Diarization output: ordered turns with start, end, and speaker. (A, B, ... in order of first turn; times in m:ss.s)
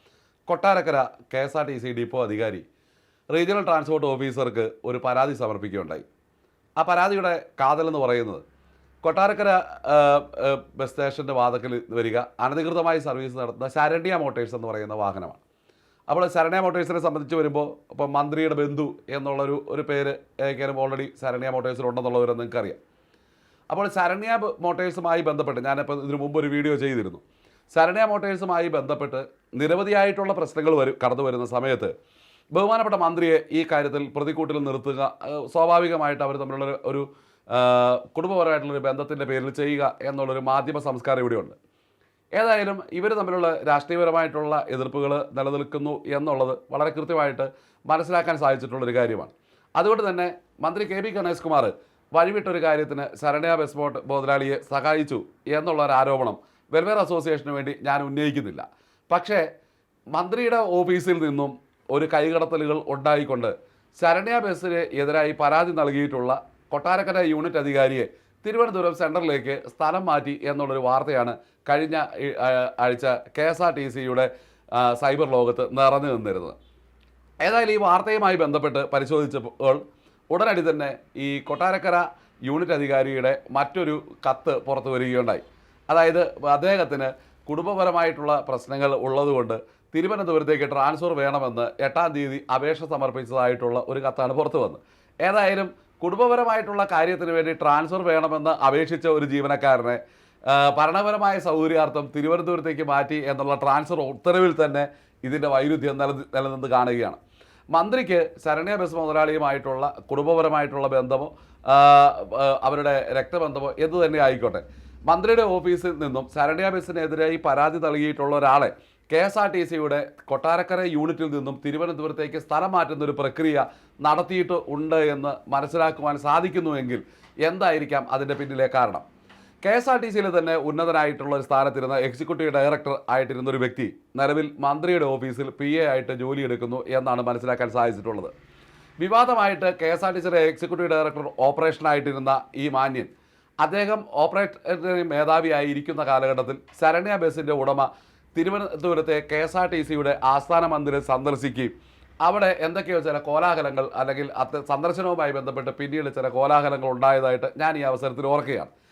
0:00.5-0:02.6 A
0:03.3-0:06.0 A
0:06.8-0:08.4 A
0:09.0-0:15.4 A
0:16.1-0:22.8 A
0:23.7-0:31.9 A
0:32.5-0:41.6 A
0:42.4-0:59.5 A
1:00.1-1:16.6 A
1:17.4-1:47.2 A
1:47.7-2:09.0 A
2:09.6-2:18.3 A
2:19.0-2:31.7 A
2:32.2-2:38.7 A